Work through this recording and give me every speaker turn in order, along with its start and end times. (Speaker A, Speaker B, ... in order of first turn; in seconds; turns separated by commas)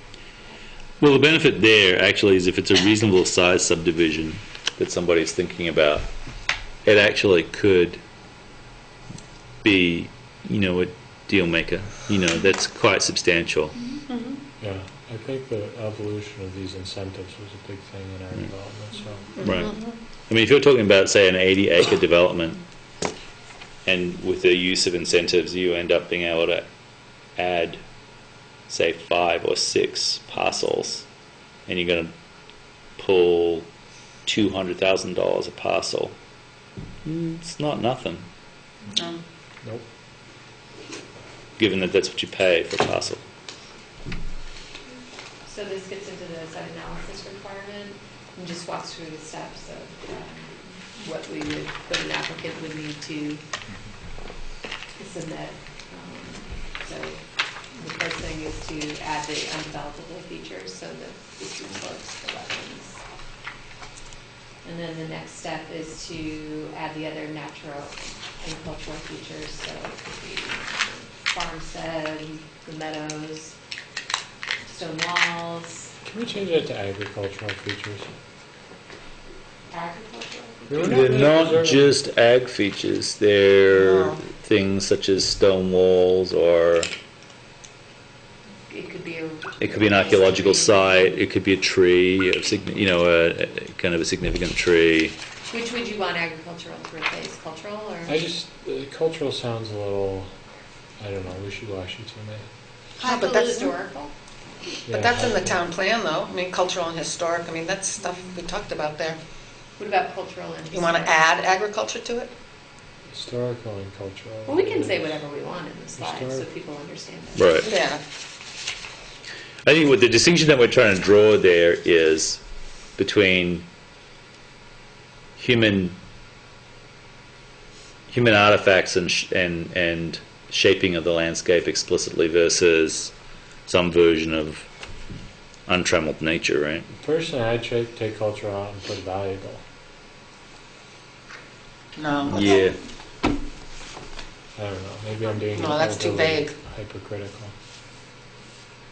Speaker A: 1.0-6.1, Speaker A: 6.8-8.0, Speaker A: 9.6-13.7, Speaker B: 14.1-14.3, Speaker C: 14.6-19.4, Speaker B: 19.4-19.9, Speaker A: 19.4-19.7, Speaker A: 20.3-22.6, Speaker A: 23.8-26.7, Speaker A: 27.4-27.8, Speaker A: 28.7-31.1, Speaker A: 31.7-32.1, Speaker A: 33.0-33.7, Speaker A: 34.2-36.1, Speaker A: 37.0-38.3, Speaker A: 41.6-43.2, Speaker D: 45.5-53.4, Speaker D: 55.0-57.2, Speaker D: 57.7-63.0, Speaker D: 64.6-73.5, Speaker D: 74.6-75.9, Speaker C: 76.0-78.1, Speaker D: 79.7-80.9, Speaker C: 80.7-81.9, Speaker A: 80.8-86.9, Speaker B: 83.7-84.2, Speaker D: 88.7-91.2, Speaker A: 89.6-95.2, Speaker D: 95.5-98.2, Speaker C: 98.0-100.3, Speaker C: 101.0-102.4, Speaker D: 103.0-104.1, Speaker B: 103.0-103.7, Speaker B: 104.9-109.2, Speaker C: 104.9-105.6, Speaker D: 109.8-111.3, Speaker B: 110.7-112.3, Speaker C: 113.1-115.1, Speaker D: 114.5-117.7, Speaker C: 116.0-116.4, Speaker A: 117.3-117.7, Speaker B: 117.6-118.0, Speaker A: 119.6-122.4, Speaker A: 123.0-123.7, Speaker A: 125.4-126.0, Speaker A: 128.1-133.1, Speaker A: 133.7-134.7, Speaker A: 135.7-136.9, Speaker C: 136.9-139.6, Speaker B: 141.9-142.6, Speaker A: 142.3-142.8, Speaker C: 144.6-147.5, Speaker B: 145.5-146.5